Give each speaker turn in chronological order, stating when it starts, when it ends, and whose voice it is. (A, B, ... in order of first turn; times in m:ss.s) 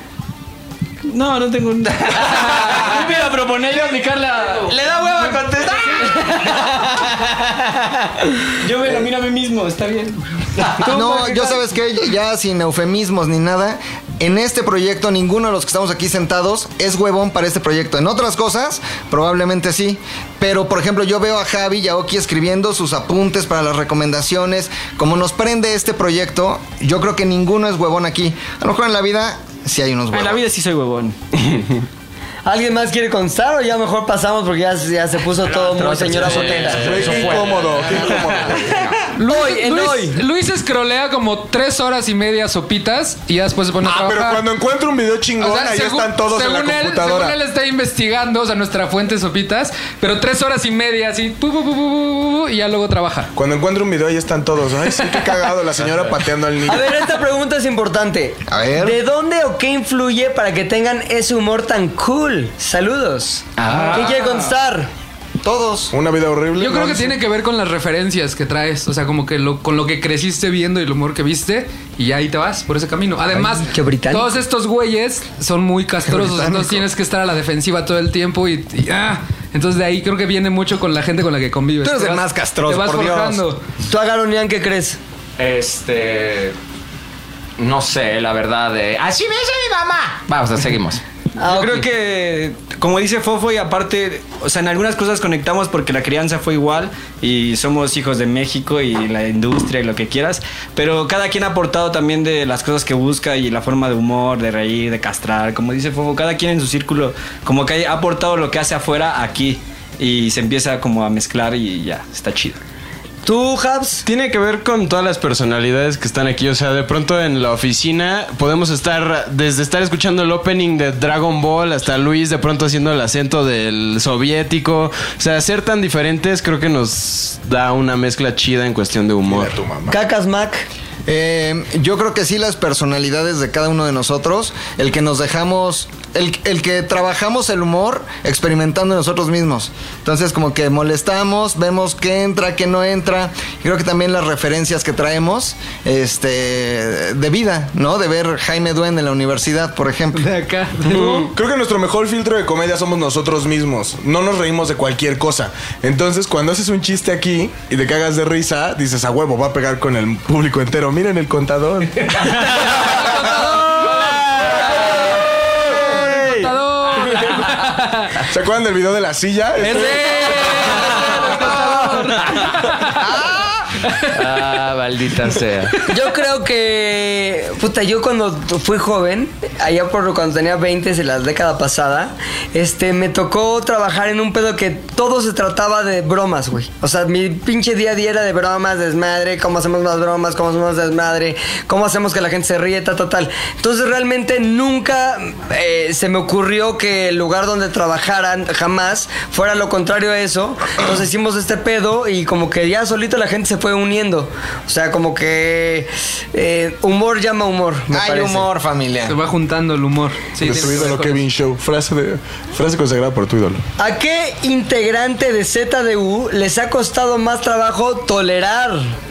0:01.1-0:05.4 A
0:04.6-0:06.5 B
0:06.0-0:07.6 A
0:08.6-0:10.9 A
0:10.7-0:11.6 C
0:10.8-0:30.4 D
0:30.1-0:31.2 A
0:32.4-0:37.0 C
0:35.4-0:39.0 B
0:36.2-0:37.4 E
0:36.7-0:38.9 F
0:38.1-0:38.5 C
0:39.2-0:44.5 G
0:39.2-0:40.2 C
0:43.8-0:47.4 F
0:45.4-0:53.3 G
0:53.4-0:57.1 F
0:56.7-1:04.9 C
0:58.5-0:59.0 D
1:03.6-1:04.2 B
1:03.8-1:04.5 A
1:05.4-1:05.9 D
1:05.9-1:07.2 F
1:06.6-1:23.6 G
1:13.3-1:14.4 C
1:16.1-1:16.8 D
1:21.8-1:23.4 D
1:23.9-1:25.0 C
1:25.4-1:26.6 B
1:27.6-1:31.0 B
1:31.4-1:31.8 C
1:31.4-1:52.6 A
1:53.2-1:54.0 C
1:54.0-2:09.6 E
2:09.3-2:10.0 F
2:09.9-2:10.7 C
2:11.1-2:30.3 D
2:30.2-2:31.3 G
2:30.9-2:31.3 C
2:31.3-2:43.1 F
2:42.7-2:48.2 G
2:43.8-2:44.8 A
2:45.4-2:46.5 A
2:48.3-2:51.7 F
2:49.6-2:53.1 G
2:50.9-2:52.4 C
2:53.8-2:54.2 G
2:54.1-2:55.8 B
2:55.8-3:28.5 C
3:27.9-3:29.2 D
3:29.1-3:31.2 G
3:30.4-3:33.6 F
3:33.8-3:38.9 C